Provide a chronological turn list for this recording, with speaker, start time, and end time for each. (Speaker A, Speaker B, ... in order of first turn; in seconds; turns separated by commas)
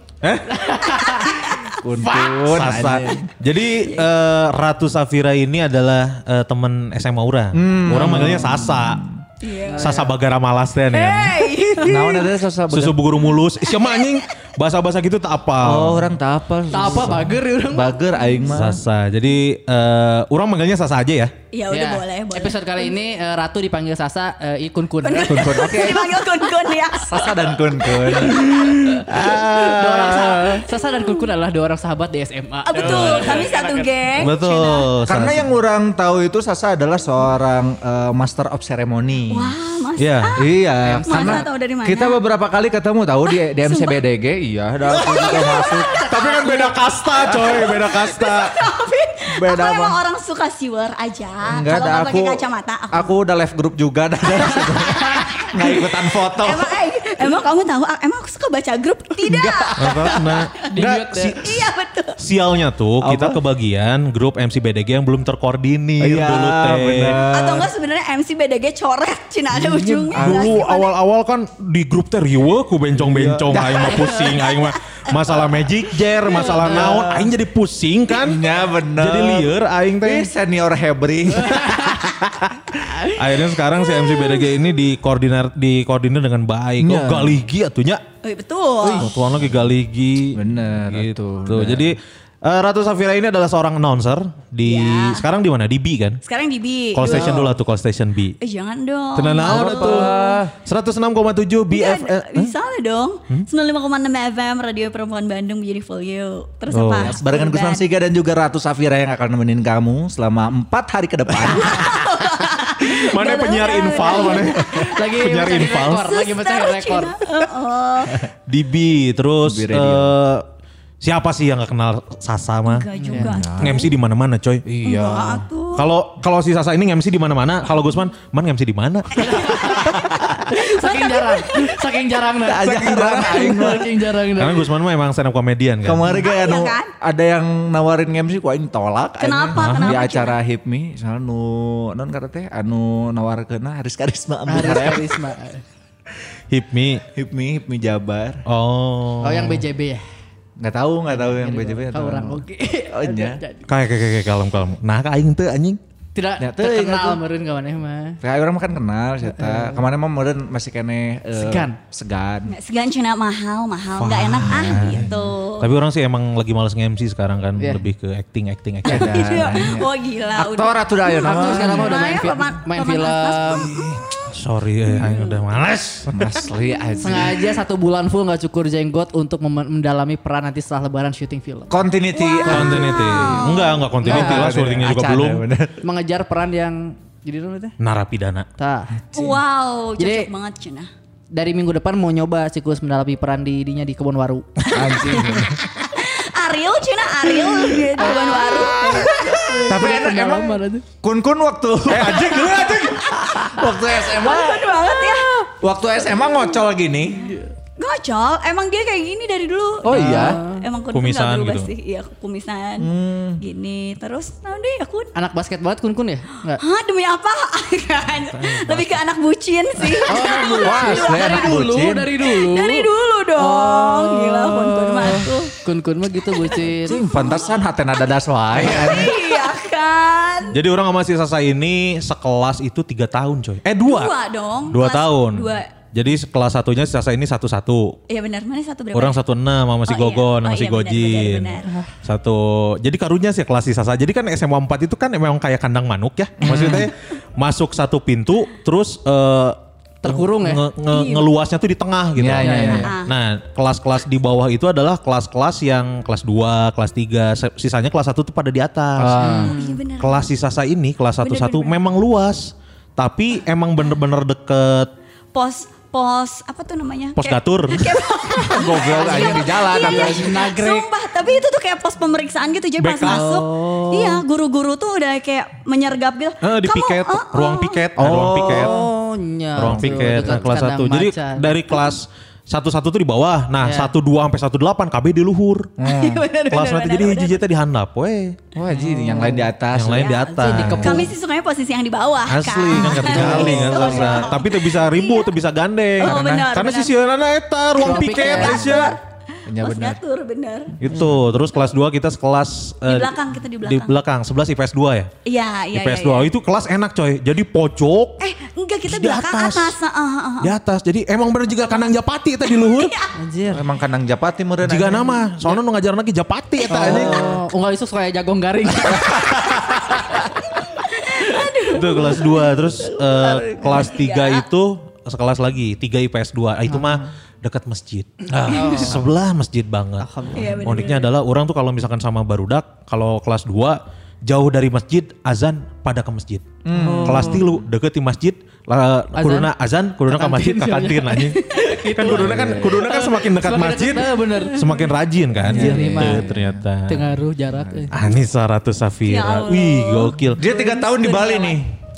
Speaker A: 0.2-1.2, Speaker B: 0.5-1.5, Speaker C: 1.3-1.8, Speaker D: 1.8-3.3, Speaker B: 2.0-2.6, Speaker A: 2.4-9.0, Speaker C: 3.8-4.0, Speaker D: 7.5-9.2, Speaker C: 9.4-10.0, Speaker B: 9.6-10.1, Speaker A: 9.8-11.5, Speaker C: 10.9-12.3, Speaker D: 11.8-13.0, Speaker A: 12.7-16.1, Speaker C: 13.7-14.2, Speaker D: 15.6-18.8, Speaker B: 16.7-18.0, Speaker A: 18.4-21.3, Speaker C: 21.5-22.9, Speaker B: 21.7-25.8, Speaker C: 25.0-27.3, Speaker D: 25.2-26.1, Speaker D: 27.0-30.6, Speaker C: 28.1-28.6, Speaker B: 28.2-29.0, Speaker A: 29.1-30.0, Speaker B: 29.6-33.9, Speaker C: 30.1-31.1, Speaker C: 32.6-34.9, Speaker D: 32.8-33.5, Speaker A: 34.1-35.5, Speaker D: 35.0-39.5, Speaker C: 39.3-40.4, Speaker A: 40.0-40.4, Speaker D: 40.4-46.0, Speaker B: 40.8-41.5, Speaker C: 41.1-42.2, Speaker C: 43.2-44.0, Speaker C: 44.9-53.1, Speaker A: 46.1-48.5, Speaker D: 47.3-47.6, Speaker D: 49.3-50.0, Speaker D: 51.5-52.4, Speaker D: 52.9-56.8, Speaker C: 56.4-60.5, Speaker D: 59.2-60.2, Speaker A: 59.8-61.6, Speaker B: 60.6-61.4, Speaker C: 61.4-62.2, Speaker A: 62.2-67.2, Speaker D: 63.0-63.4, Speaker D: 66.0-67.7, Speaker C: 67.1-70.9, Speaker A: 69.6-80.3, Speaker D: 69.7-70.6, Speaker D: 73.0-74.2, Speaker B: 76.3-77.2, Speaker D: 78.1-79.5, Speaker D: 80.0-81.9, Speaker B: 81.5-81.9, Speaker A: 81.7-88.0, Speaker D: 86.8-87.4, Speaker C: 88.2-89.1, Speaker D: 88.8-89.1, Speaker A: 89.0-96.2, Speaker D: 90.3-91.9, Speaker C: 94.6-95.2, Speaker C: 96.2-97.5, Speaker A: 96.9-98.3, Speaker C: 98.4-100.3, Speaker A: 99.2-102.5, Speaker D: 99.4-100.5, Speaker C: 101.7-107.8, Speaker A: 106.7-107.2, Speaker D: 107.0-112.1, Speaker C: 111.5-118.3, Speaker A: 112.8-116.1, Speaker D: 114.4-114.9, Speaker B: 114.8-117.2, Speaker A: 118.5-120.5, Speaker D: 119.4-120.1, Speaker A: 121.0-122.9, Speaker C: 122.7-123.9, Speaker B: 123.0-123.4, Speaker D: 123.3-123.8, Speaker A: 123.6-124.6, Speaker D: 124.7-125.5, Speaker C: 124.8-125.9, Speaker A: 125.7-129.8, Speaker C: 129.2-129.9, Speaker B: 129.2-134.6, Speaker D: 129.8-130.4, Speaker C: 130.7-131.7, Speaker D: 132.4-133.9, Speaker A: 132.6-133.6, Speaker A: 134.3-136.2, Speaker D: 135.8-145.2, Speaker C: 136.2-136.9, Speaker C: 139.2-140.4, Speaker A: 139.5-140.0, Speaker B: 144.5-145.6, Speaker A: 146.5-147.0, Speaker D: 147.2-148.4, Speaker A: 148.4-149.6, Speaker B: 149.2-150.0, Speaker D: 150.6-153.4, Speaker B: 151.1-153.7, Speaker A: 153.7-155.8, Speaker B: 156.1-158.2, Speaker D: 156.4-157.2, Speaker D: 158.2-162.5, Speaker B: 159.2-159.8, Speaker B: 161.3-161.8, Speaker C: 162.5-165.7, Speaker A: 163.9-169.5, Speaker D: 164.5-165.2, Speaker B: 167.6-167.8, Speaker D: 168.8-171.9, Speaker C: 168.9-173.9, Speaker B: 171.2-173.7, Speaker A: 173.5-176.4, Speaker C: 175.0-175.4, Speaker D: 176.1-177.4, Speaker B: 177.0-181.8, Speaker D: 181.7-185.8, Speaker C: 182.1-183.8, Speaker A: 182.4-185.4, Speaker B: 184.0-184.6, Speaker B: 185.8-187.7, Speaker A: 187.8-188.5, Speaker B: 188.6-189.0, Speaker C: 189.1-190.9, Speaker B: 190.0-190.3, Speaker B: 191.3-194.4, Speaker D: 194.7-195.6, Speaker A: 194.8-195.4, Speaker C: 195.9-199.8, Speaker B: 198.0-200.8, Speaker D: 199.7-202.4, Speaker A: 201.9-203.2, Speaker D: 203.3-204.7, Speaker C: 204.0-205.3, Speaker D: 205.6-207.3, Speaker B: 207.2-207.5, Speaker C: 207.8-215.1, Speaker D: 209.8-210.4, Speaker B: 209.9-210.6, Speaker A: 210.9-211.7, Speaker D: 212.8-213.4, Speaker B: 215.1-216.6, Speaker C: 216.6-221.7, Speaker A: 218.3-219.0, Speaker B: 220.1-227.0, Speaker D: 220.6-222.1, Speaker C: 222.2-225.5, Speaker C: 226.5-227.6, Speaker D: 226.8-229.3, Speaker C: 228.6-230.6, Speaker A: 230.5-234.1, Speaker C: 233.8-235.7, Speaker A: 234.7-238.0, Speaker C: 238.1-239.2, Speaker A: 238.9-264.9, Speaker C: 239.8-241.7, Speaker D: 246.4-246.9, Speaker B: 246.4-246.8, Speaker B: 250.0-250.7, Speaker C: 250.9-251.2, Speaker D: 252.2-252.9, Speaker B: 252.4-252.9, Speaker C: 252.7-253.2, Speaker D: 259.0-259.5, Speaker B: 259.2-259.8, Speaker C: 259.4-260.3, Speaker C: 261.2-261.8, Speaker C: 265.3-277.9, Speaker A: 267.1-268.1, Speaker D: 268.4-270.4, Speaker B: 268.9-270.9, Speaker A: 272.8-273.3, Speaker B: 273.1-274.2, Speaker A: 276.4-278.7, Speaker D: 277.9-278.9, Speaker B: 278.4-281.6, Speaker A: 279.6-285.7, Speaker D: 279.6-280.4, Speaker B: 283.6-283.9, Speaker D: 285.8-286.2, Speaker C: 285.8-287.4, Speaker A: 286.5-288.4, Speaker D: 288.5-291.0, Speaker B: 288.7-289.5, Speaker A: 289.7-291.1, Speaker C: 289.9-295.3, Speaker B: 290.4-291.1, Speaker A: 292.3-299.0, Speaker B: 292.8-294.1, Speaker D: 293.1-294.1, Speaker C: 296.0-296.9, Speaker D: 296.0-296.5, Speaker C: 297.8-299.0, Speaker B: 297.8-298.7, Speaker D: 299.4-300.0, Speaker C: 299.6-300.8, Speaker A: 300.8-305.1, Speaker D: 300.8-301.2, Speaker C: 302.9-304.0, Speaker C: 305.2-306.3, Speaker A: 305.7-308.2, Speaker C: 308.2-310.5, Speaker A: 308.9-309.8, Speaker A: 310.4-312.9, Speaker C: 311.7-311.9, Speaker C: 312.4-313.1, Speaker B: 313.1-313.6, Speaker D: 313.5-315.2, Speaker A: 314.6-317.2, Speaker B: 316.7-320.3, Speaker D: 316.8-317.4, Speaker D: 318.9-319.6, Speaker C: 320.8-324.4, Speaker A: 321.7-347.2, Speaker B: 326.7-327.1, Speaker B: 328.5-329.0, Speaker B: 330.0-330.9, Speaker C: 330.3-331.1, Speaker D: 336.6-337.6, Speaker B: 336.7-337.4, Speaker B: 339.1-339.5, Speaker B: 340.1-344.7, Speaker D: 342.1-342.8, Speaker D: 345.4-346.6, Speaker B: 345.4-346.3, Speaker B: 346.9-347.9, Speaker D: 347.5-347.9, Speaker A: 347.9-350.4, Speaker C: 349.0-351.6, Speaker D: 350.4-351.7